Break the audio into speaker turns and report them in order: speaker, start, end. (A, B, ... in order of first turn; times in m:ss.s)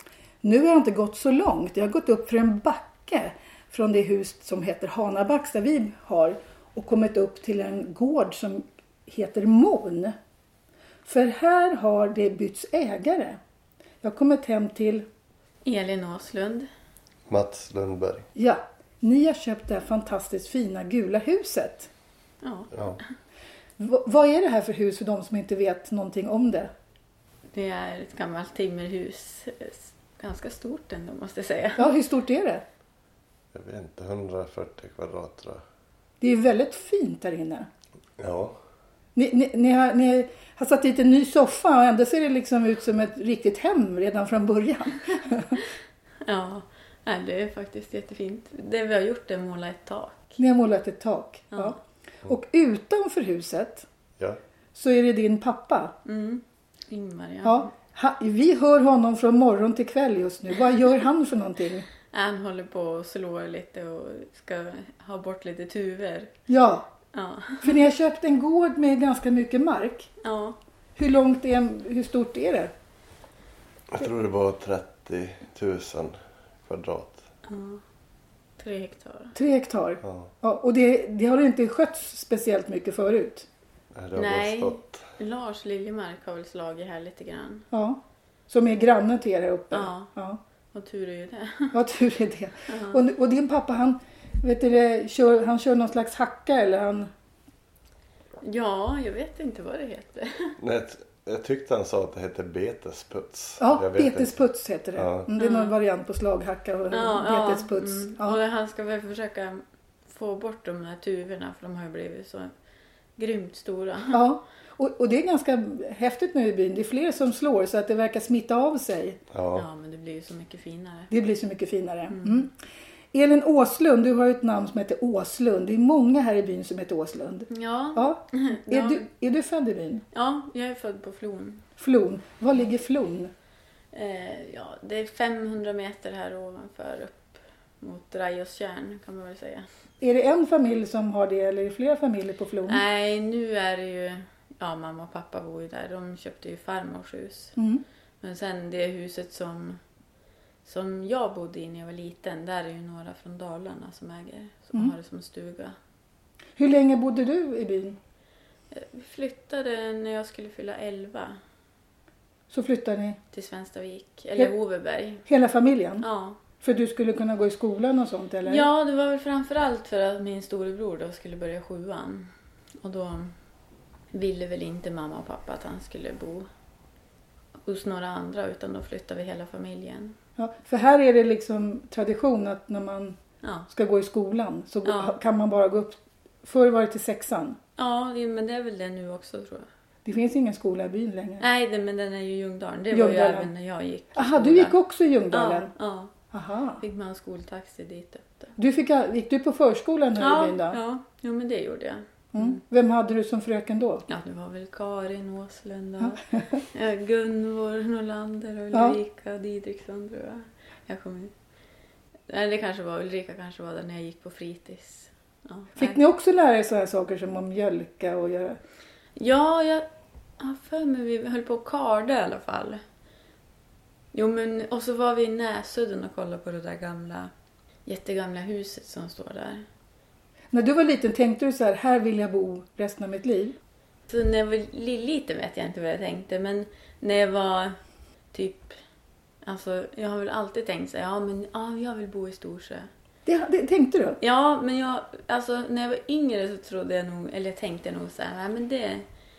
0:00.4-0:10.1 A
0:11.0-0:13.4 A
0:14.0-0:15.0 A
0:15.6-0:16.7 B
0:17.3-0:18.3 C
0:18.3-0:21.9 A
0:22.4-0:22.7 B
0:22.7-0:23.0 C
0:23.8-0:26.7 A
0:27.5-0:31.9 B
0:31.8-0:32.6 A
0:33.5-0:35.6 C
0:36.2-0:37.7 A
0:38.2-0:38.6 C
0:39.2-0:45.6 A
0:46.3-0:50.4 B
0:50.4-0:53.9 A
0:54.8-0:56.0 A
0:56.0-0:57.7 B
0:57.4-1:01.9 A
1:02.1-1:06.3 B
1:06.5-1:06.9 A
1:07.1-1:07.8 B
1:07.6-1:10.1 A
1:10.2-1:10.6 B
1:11.0-1:12.7 A
1:13.9-1:17.2 C
1:17.4-1:17.8 B
1:18.6-1:19.4 B
1:19.3-1:23.5 A
1:20.0-1:20.3 C
1:23.9-1:25.0 C
1:24.2-1:27.7 B
1:27.7-1:30.4 A
1:29.7-1:30.1 B
1:30.7-1:31.8 B
1:31.7-1:37.1 A
1:32.7-1:33.0 B
1:38.4-1:40.6 B
1:40.6-1:44.3 C
1:43.6-1:48.4 A
1:45.0-1:45.3 C
1:45.4-1:45.8 B
1:46.9-1:52.5 B
1:53.2-1:54.2 B
1:54.1-1:59.2 A
1:59.3-1:59.7 C
1:59.5-2:01.1 B
2:01.1-2:02.5 A
2:02.1-2:02.5 B
2:03.1-2:10.0 A
2:07.5-2:09.0 B
2:10.1-2:11.6 B
2:11.8-2:13.3 A
2:13.9-2:19.7 B
2:20.0-2:22.8 A
2:22.7-2:27.6 B
2:27.6-2:27.8 A
2:28.2-2:29.8 B
2:30.6-2:35.8 B
2:36.6-2:38.0 A
2:38.7-2:41.4 B
2:42.5-2:43.2 A
2:43.3-2:45.2 B
2:45.2-2:46.0 A
2:46.0-2:46.4 B
2:46.6-2:48.7 A
2:48.4-2:52.3 B
2:52.8-2:53.3 B
2:54.1-2:56.5 B
2:57.7-3:00.2 B
3:00.4-3:03.2 A
3:03.7-3:07.6 A
3:04.8-3:05.2 B
3:07.8-3:09.7 B
3:10.0-3:11.4 A
3:11.4-3:14.8 B
3:12.9-3:13.5 A
3:14.2-3:15.7 A
3:15.3-3:16.1 B
3:16.3-3:16.8 A
3:16.8-3:18.5 B
3:18.6-3:20.8 A
3:20.2-3:22.6 B
3:22.3-3:24.0 A
3:24.1-3:31.3 B
3:26.0-3:26.6 A
3:28.7-3:29.0 A
3:32.3-3:36.0 B
3:35.8-3:38.6 A
3:39.2-3:39.9 B
3:40.4-3:42.8 B
3:44.1-3:47.3 B
3:47.8-3:49.7 B
3:50.5-3:53.6 A
3:54.1-3:57.8 B
3:58.3-3:58.7 B
3:59.4-4:02.9 B
4:03.2-4:04.2 A
4:04.2-4:09.1 B